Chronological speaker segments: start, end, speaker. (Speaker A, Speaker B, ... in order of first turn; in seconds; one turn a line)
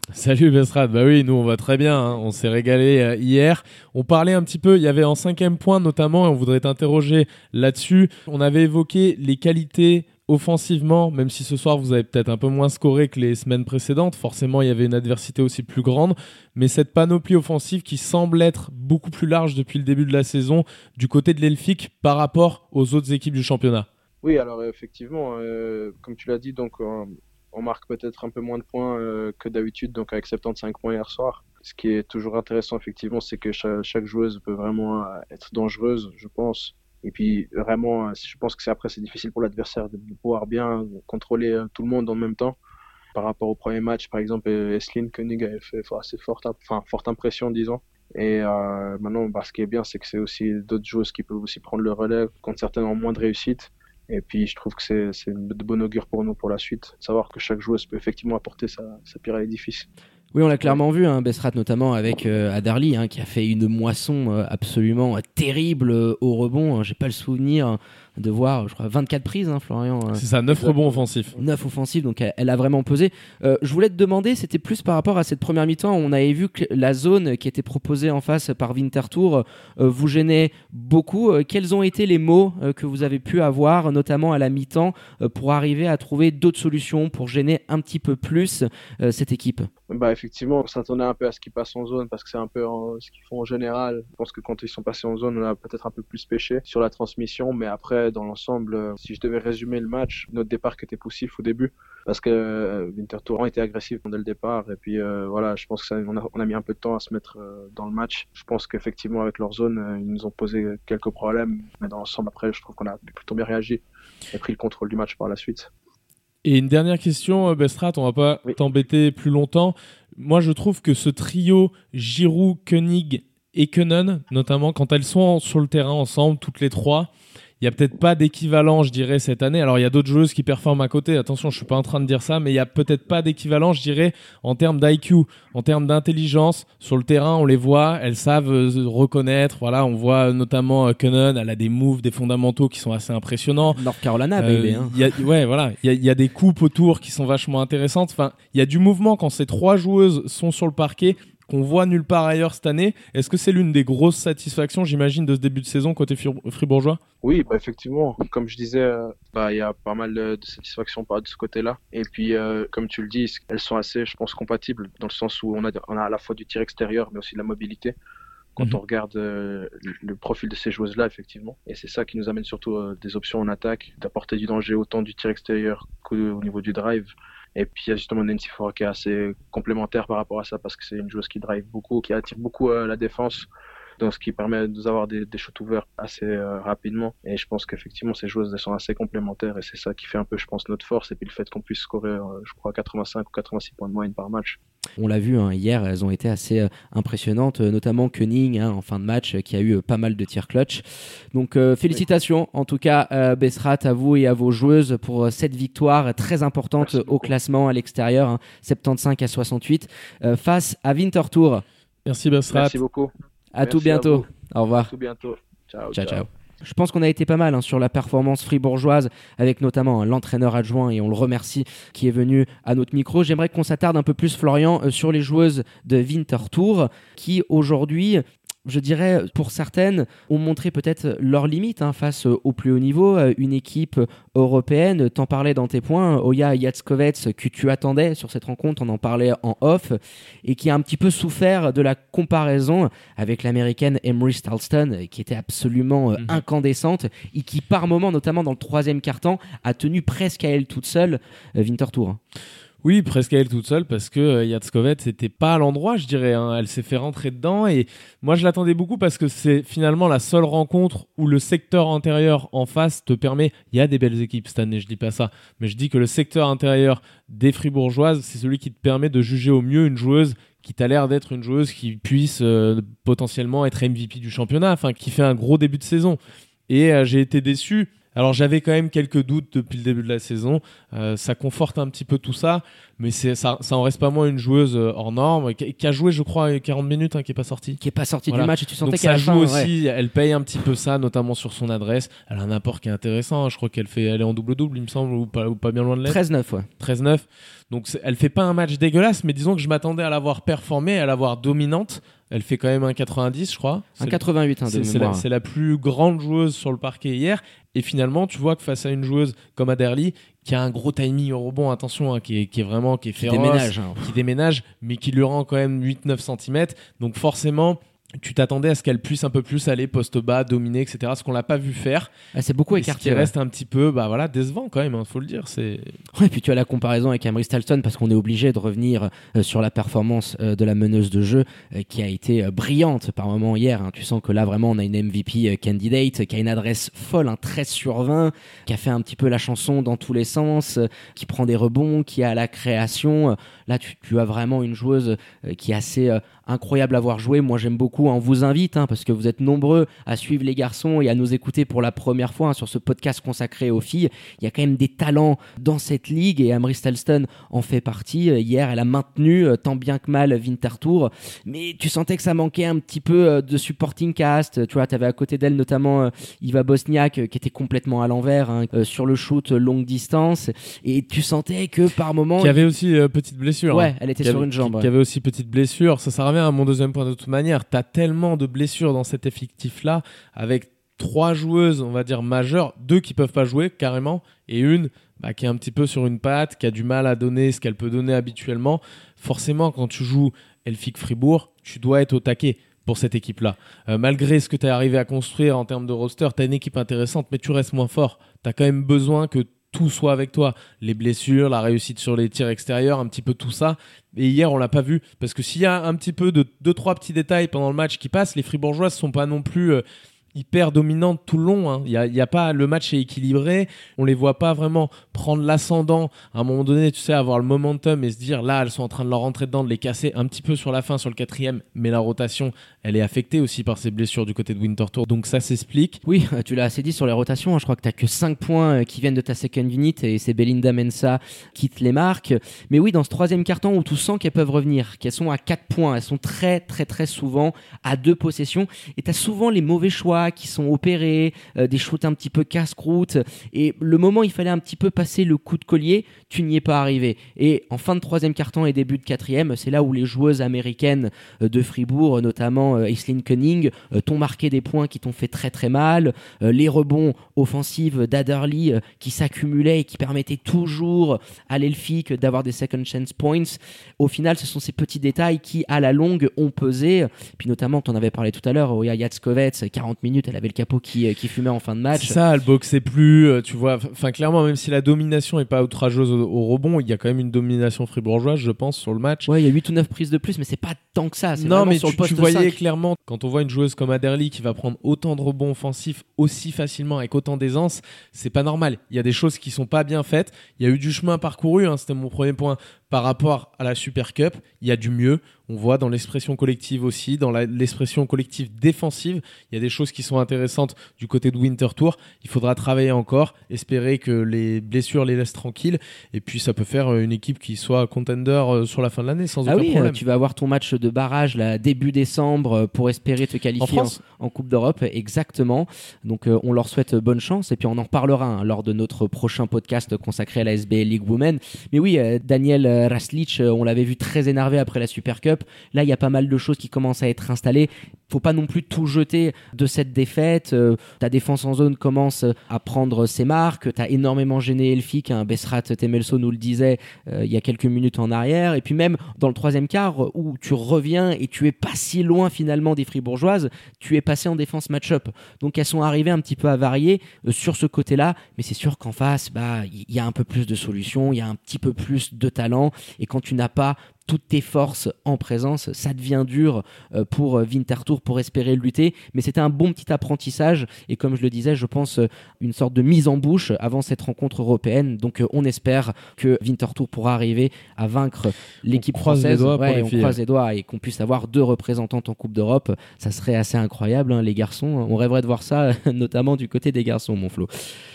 Speaker A: 0.1-23.9
Speaker B: 24.2-42.6
Speaker B: 43.1-59.9
Speaker C: 60.3-70.2
Speaker A: 70.1-71.4
Speaker B: 70.5-71.0
Speaker C: 71.4-89.7
Speaker B: 89.9-113.8
Speaker B: 114.3-115.7
Speaker A: 116.4-127.1
Speaker A: 127.6-143.8
Speaker C: 143.7-145.2
Speaker A: 144.4-157.0
Speaker B: 157.2-167.9
Speaker B: 168.6-183.5
Speaker B: 184.0-194.6
Speaker C: 195.0-200.8
Speaker C: 201.3-211.6
Speaker B: 206.9-207.3
Speaker A: 212.1-212.8
Speaker B: 212.5-213.1
Speaker C: 213.5-214.9
Speaker B: 213.6-216.2
Speaker C: 215.9-252.2
Speaker A: 252.8-296.2
Speaker C: 287.8-289.7
Speaker C: 296.0-296.7
Speaker A: 296.8-322.1
Speaker C: 304.0-305.2
Speaker C: 313.2-314.1
Speaker C: 322.3-323.3
Speaker A: 322.7-326.0
Speaker C: 326.1-372.6
Speaker A: 372.4-409.8
Speaker C: 373.7-374.9
Speaker A: 410.3-426.0
Speaker C: 426.1-472.2
Speaker A: 471.9-479.3
Speaker C: 479.2-482.6
Speaker A: 481.4-510.0
Speaker C: 509.4-577.5
Speaker A: 513.6-514.0
Speaker A: 568.7-570.2